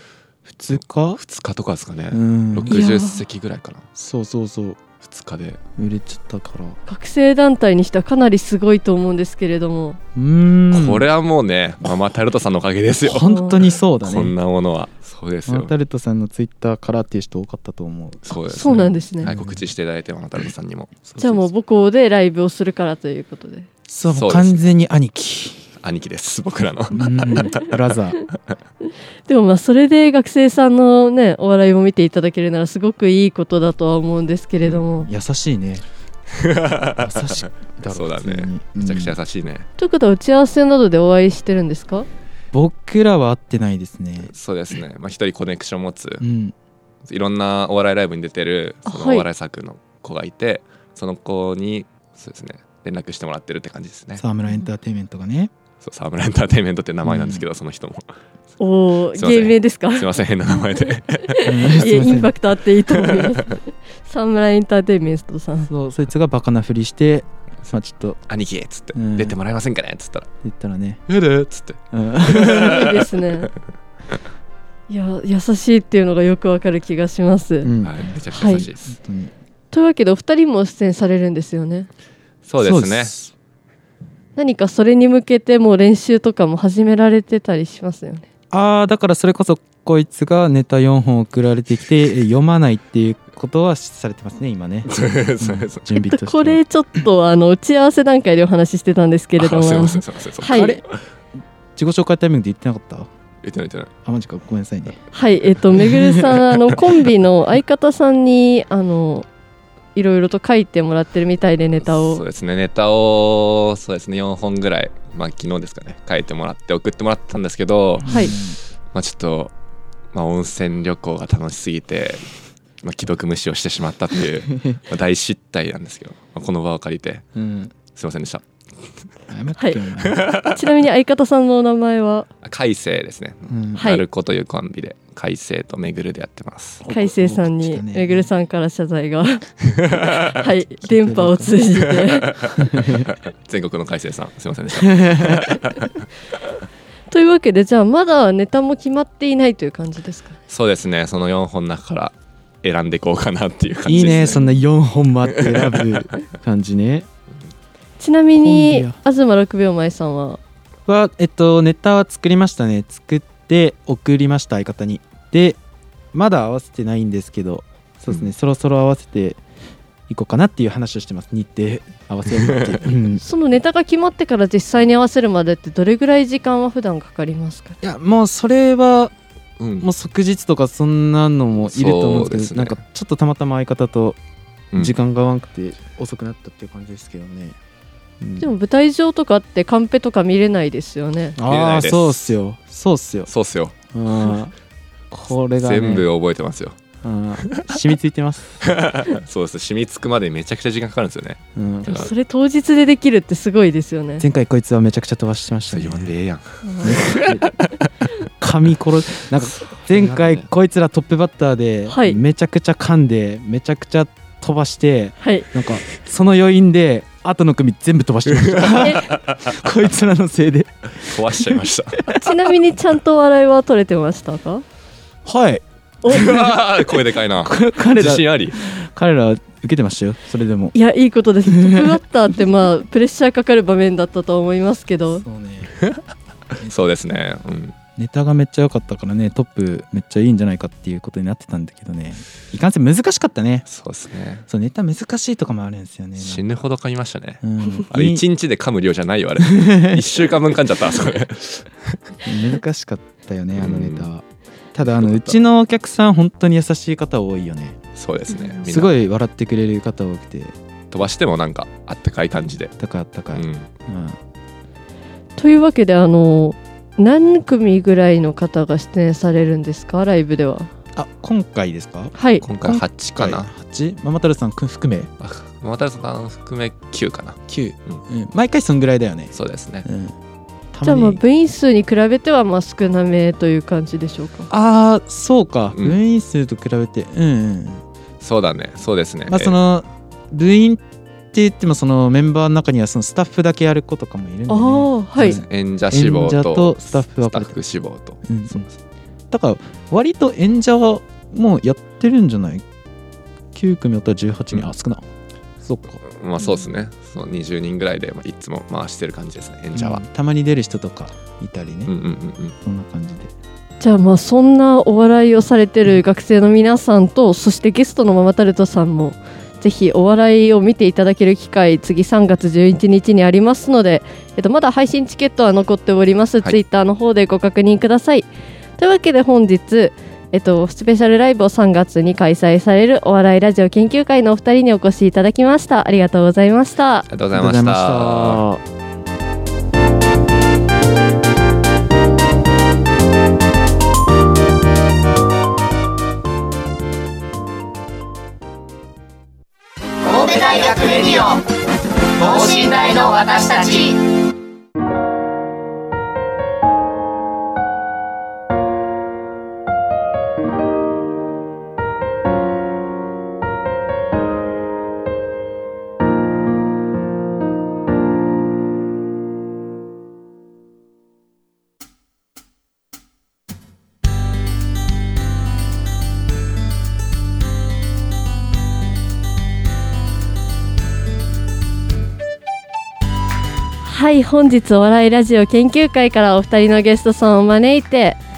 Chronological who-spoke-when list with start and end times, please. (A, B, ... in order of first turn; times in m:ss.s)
0:00.5-0:01.2 A
0:01.2-0:03.8 B
0:02.1-0:02.8 A
0:02.7-0:03.2 C
0:04.0-0:04.8 A
0:05.0-0:05.6 B
0:05.8-0:06.8 A
0:06.9-0:10.0 C
0:10.2-0:11.1 A
0:10.7-0:15.7 B
0:13.0-0:14.4 A
0:13.2-0:13.6 C
0:15.5-0:18.3 A
0:18.2-0:21.1 B
0:18.3-0:19.3 C
0:19.3-0:19.6 A
0:21.1-0:21.5 A
0:21.2-0:23.7 C
0:23.9-0:25.7 A
0:24.1-0:24.7 B
0:25.8-0:27.8 B
0:26.9-0:28.2 A
0:29.3-0:35.1 C
0:35.0-0:35.8 A
0:36.3-0:39.7 B
0:37.0-0:39.1 A
0:39.8-0:42.1 C
0:42.5-0:44.3 A
0:44.3-0:46.2 B
0:46.2-0:46.6 A
0:47.1-0:54.2 B
0:48.9-0:49.3 C
0:54.2-0:55.5 A
0:55.8-0:58.1 B
0:57.1-0:57.4 A
0:58.6-1:00.1 C
0:59.2-1:01.7 B
1:01.3-1:05.7 C
1:01.4-1:02.3 A
1:03.0-1:03.5 B
1:05.7-1:08.2 A
1:08.3-1:10.3 B
1:09.0-1:09.4 A
1:10.4-1:11.0 A
1:11.1-1:11.8 B
1:11.9-1:13.0 A
1:12.3-1:13.1 B
1:12.4-1:13.5 C
1:14.9-1:17.7 C
1:17.6-1:19.3 A
1:17.8-1:19.0 B
1:18.4-1:18.6 C
1:19.7-1:21.9 C
1:22.5-1:23.1 B
1:22.6-1:23.3 A
1:24.4-1:28.3 C
1:28.5-1:36.6 A
1:34.9-1:36.0 B
1:36.0-1:40.8 C
1:39.4-1:40.7 B
1:40.5-1:40.8 A
1:41.8-1:43.1 A
1:43.4-1:43.9 B
1:44.0-1:45.0 A
1:45.1-1:49.3 C
1:50.0-1:52.2 C
1:51.9-1:59.5 B
1:58.0-1:58.6 A
1:58.0-1:58.4 C
2:00.1-2:02.2 B
2:02.8-2:07.3 B
2:07.4-2:07.7 A
2:07.9-2:08.4 B
2:09.3-2:10.2 A
2:09.6-2:09.8 C
2:10.0-2:10.6 B
2:10.4-2:12.3 C
2:12.4-2:16.8 B
2:13.5-2:13.8 A
2:13.8-2:14.0 C
2:16.8-2:18.3 A
2:16.9-2:19.5 C
2:19.7-2:20.3 B
2:20.1-2:22.4 C
2:20.8-2:21.5 A
2:22.0-2:25.9 B
2:22.6-2:23.1 A
2:24.8-2:25.6 A
2:27.1-2:30.4 C
2:30.5-2:34.5 B
2:33.8-2:37.1 A
2:35.3-2:36.0 B
2:38.0-2:40.4 C
2:38.4-2:39.0 A
2:40.9-2:45.6 A
2:46.1-2:49.4 A
2:50.1-2:53.2 A
2:52.4-2:52.8 B
2:53.2-2:57.8 C
2:57.8-2:59.1 A
2:59.6-2:59.9 B
2:59.8-3:04.2 A
3:01.6-3:02.8 B
3:04.8-3:07.6 A
3:08.2-3:08.5 A
3:08.4-3:11.4 C
3:11.4-3:13.3 A
3:11.4-3:12.2 B
3:13.3-3:13.7 B
3:13.9-3:14.5 A
3:15.1-3:16.1 A
3:15.6-3:16.8 B
3:17.0-3:18.7 A
3:17.4-3:17.8 B
3:18.6-3:22.1 B
3:21.6-3:22.1 A
3:21.8-3:24.2 C
3:24.2-3:26.1 A
3:25.7-3:27.9 B
3:26.6-3:27.0 C
3:26.8-3:27.6 A
3:28.4-3:42.1 A
3:29.3-3:30.5 B
3:31.9-3:32.2 C
3:35.2-3:35.5 C
3:38.3-3:39.6 B
3:41.0-3:42.0 B
3:42.1-3:44.6 C
3:45.2-3:50.7 A
3:46.1-3:48.6 B
3:50.7-3:55.2 C
3:51.5-3:52.0 A
3:55.2-3:55.7 A
3:56.6-3:57.8 B
3:58.0-4:03.7 A
4:03.7-4:04.5 B
4:04.5-4:06.5 A
4:06.2-4:12.0 B
4:07.4-4:08.2 A
4:09.4-4:10.0 A
4:12.3-4:17.8 A
4:13.6-4:14.1 B
4:14.8-4:15.4 B
4:18.0-4:19.0 B
4:18.6-4:20.5 A
4:20.9-4:22.7 B
4:22.8-4:24.2 A
4:23.3-4:23.7 B
4:25.4-4:30.7 C
4:31.0-4:35.1 A
4:32.2-4:32.4 C
4:32.4-4:33.5 B
4:35.2-4:38.0 B
4:37.5-4:39.3 A
4:39.3-4:39.9 B
4:39.8-4:40.1 A
4:40.7-4:41.2 A
4:40.8-4:44.5 C
4:44.5-4:47.8 A
4:48.2-4:49.6 B
4:49.3-4:57.6 A
4:54.5-4:55.4 C
4:55.3-4:58.6 B
4:58.3-4:58.7 A
4:59.3-5:02.6 A
5:03.5-5:05.0 A
5:05.6-5:06.0 A
5:06.0-5:10.0 B
5:09.7-5:11.9 A
5:11.9-5:12.6 B
5:12.6-5:13.3 A
5:13.8-5:28.3 C
5:28.8-5:37.1 C
5:37.1-5:38.4 B
5:37.3-5:38.6 A
5:50.0-5:51.6 D
5:52.1-5:54.1 D
6:23.8-6:28.2 C